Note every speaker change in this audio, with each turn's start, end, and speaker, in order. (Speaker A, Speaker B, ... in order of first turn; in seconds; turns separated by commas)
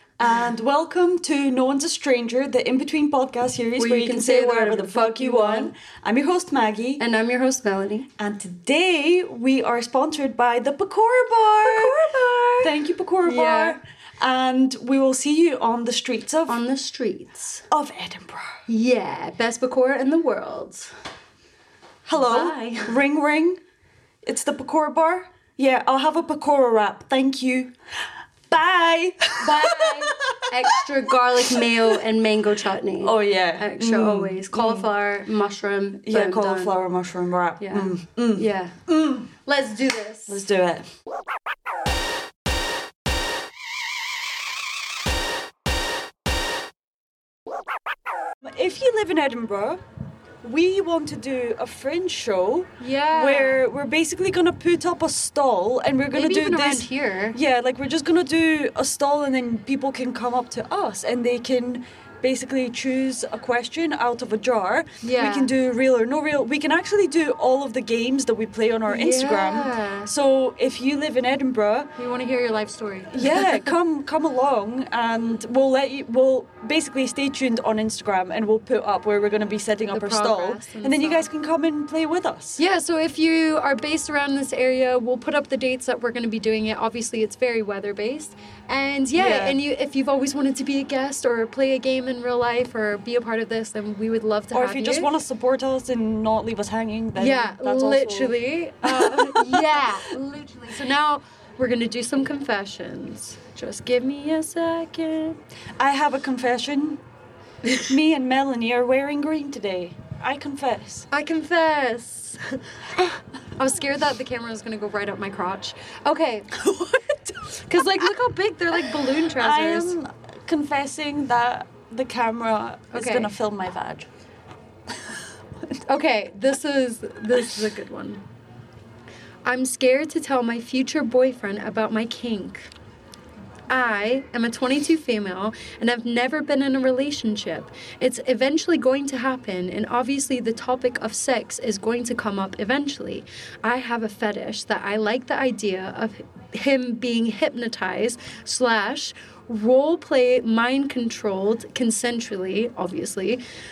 Speaker A: 0.2-7.0, Speaker B: 3.8-5.7, Speaker B: 7.0-8.1, Speaker A: 8.2-12.0, Speaker B: 11.6-13.8, Speaker A: 12.6-16.6, Speaker B: 16.5-17.6, Speaker A: 17.7-18.6, Speaker B: 18.7-20.9, Speaker A: 22.1-23.6, Speaker B: 22.1-23.0, Speaker A: 24.2-27.7, Speaker A: 28.5-30.8, Speaker B: 29.4-36.8, Speaker A: 31.4-32.0, Speaker A: 33.0-34.9, Speaker A: 36.0-39.3, Speaker B: 37.6-38.7, Speaker B: 39.4-40.4, Speaker A: 40.3-40.9, Speaker A: 48.5-49.8, Speaker A: 50.4-71.9, Speaker B: 52.8-53.6, Speaker B: 56.1-57.4, Speaker B: 65.0-65.5, Speaker B: 68.9-70.1, Speaker B: 72.0-73.7, Speaker A: 73.1-82.6, Speaker B: 79.9-81.3, Speaker B: 82.6-95.1, Speaker A: 89.1-89.6, Speaker A: 94.5-100.0, Speaker B: 97.2-105.4, Speaker A: 105.8-107.0, Speaker A: 107.9-111.1, Speaker B: 111.1-112.4, Speaker B: 113.0-116.7, Speaker A: 116.6-117.3, Speaker B: 117.5-119.9, Speaker A: 118.7-124.1, Speaker B: 122.9-123.3, Speaker B: 125.9-128.2, Speaker B: 129.4-132.7, Speaker B: 133.7-153.4